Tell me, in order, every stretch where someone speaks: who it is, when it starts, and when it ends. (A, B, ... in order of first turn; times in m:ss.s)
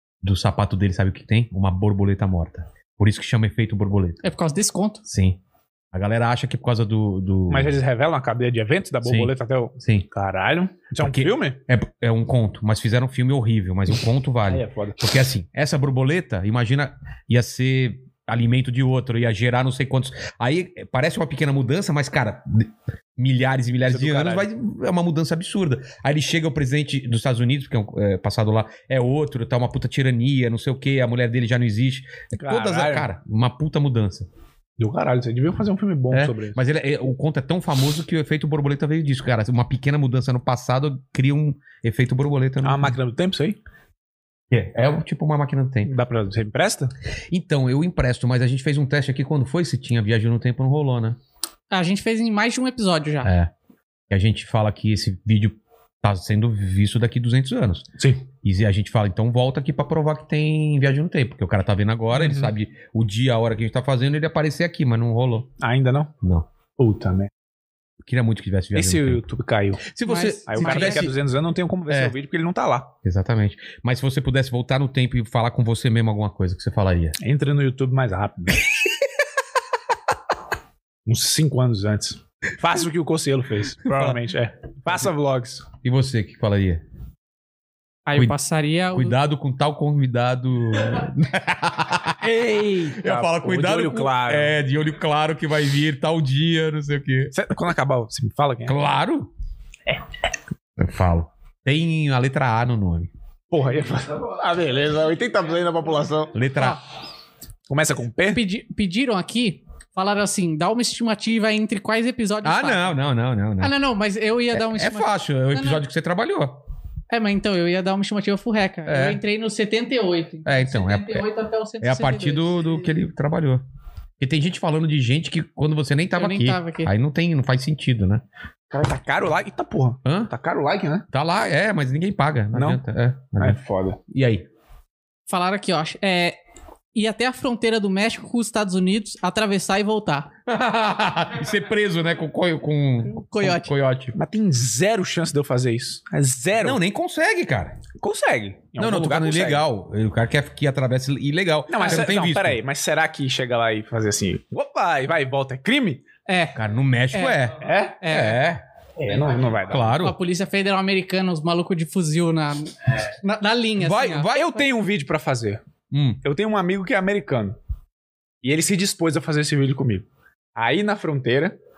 0:00.2-0:04.2 A
0:04.2-0:05.0 B
0:05.1-0:05.4 A
0:05.9-0:07.7 A
0:07.5-0:11.6 C
0:09.0-0:10.1 A
0:11.0-0:34.3 A
0:14.5-0:15.0 C
0:23.8-0:24.5 C
0:32.4-0:33.1 C
0:34.8-0:36.6 C
0:36.1-0:43.0 A
0:42.6-0:43.6 C
0:44.5-0:45.9 A
0:45.8-0:46.9 C
0:47.3-0:51.2 A
0:51.7-0:53.3 B
0:53.2-0:53.5 A
0:54.1-0:57.9 A
0:58.0-0:58.2 C
0:58.4-1:05.5 A
1:02.2-1:02.5 C
1:05.6-1:06.1 C
1:06.2-1:06.5 A
1:06.8-1:07.3 C
1:08.0-1:09.3 A
1:08.7-1:09.9 C
1:09.8-1:11.1 A
1:10.1-1:11.1 B
1:10.5-1:12.9 C
1:11.9-1:12.2 A
1:13.0-1:17.2 A
1:17.2-1:18.6 C
1:21.1-1:25.7 C
1:23.8-1:24.2 A
1:25.8-1:26.8 A
1:28.1-1:29.2 B
1:28.9-1:37.3 A
1:32.2-1:34.6 C
1:37.3-1:38.8 C
1:38.7-1:39.3 A
1:40.8-1:43.1 A
1:43.5-1:46.3 C
1:46.3-1:46.8 A
1:47.7-1:48.4 C
1:48.3-1:53.0 B
1:52.4-1:53.7 A
1:53.6-1:55.8 B
1:54.5-1:56.6 A
1:57.1-2:02.6 B
1:58.9-1:59.2 A
2:00.4-2:01.3 A
2:01.8-2:03.6 A
2:04.2-2:08.2 A
2:06.2-2:06.9 B
2:08.7-2:11.1 C
2:10.0-2:10.3 A
2:11.1-2:14.5 A
2:12.5-2:12.8 C
2:13.4-2:14.0 C
2:15.3-2:16.4 B
2:17.0-2:20.3 B
2:20.5-2:24.2 A
2:23.2-2:23.7 B
2:24.2-2:26.8 C
2:26.6-2:27.8 A
2:28.0-2:29.7 C
2:28.8-2:32.6 A
2:31.7-2:36.0 C
2:36.3-2:36.6 B
2:36.6-2:38.6 A
2:37.6-2:38.0 C
2:38.0-2:38.4 B
2:39.0-2:39.9 C
2:39.7-2:40.2 A
2:40.0-2:44.3 B
2:43.8-2:44.6 A
2:44.3-2:45.6 C
2:45.9-2:46.2 A
2:46.2-2:47.6 C
2:48.4-2:50.0 C
2:50.6-2:51.6 C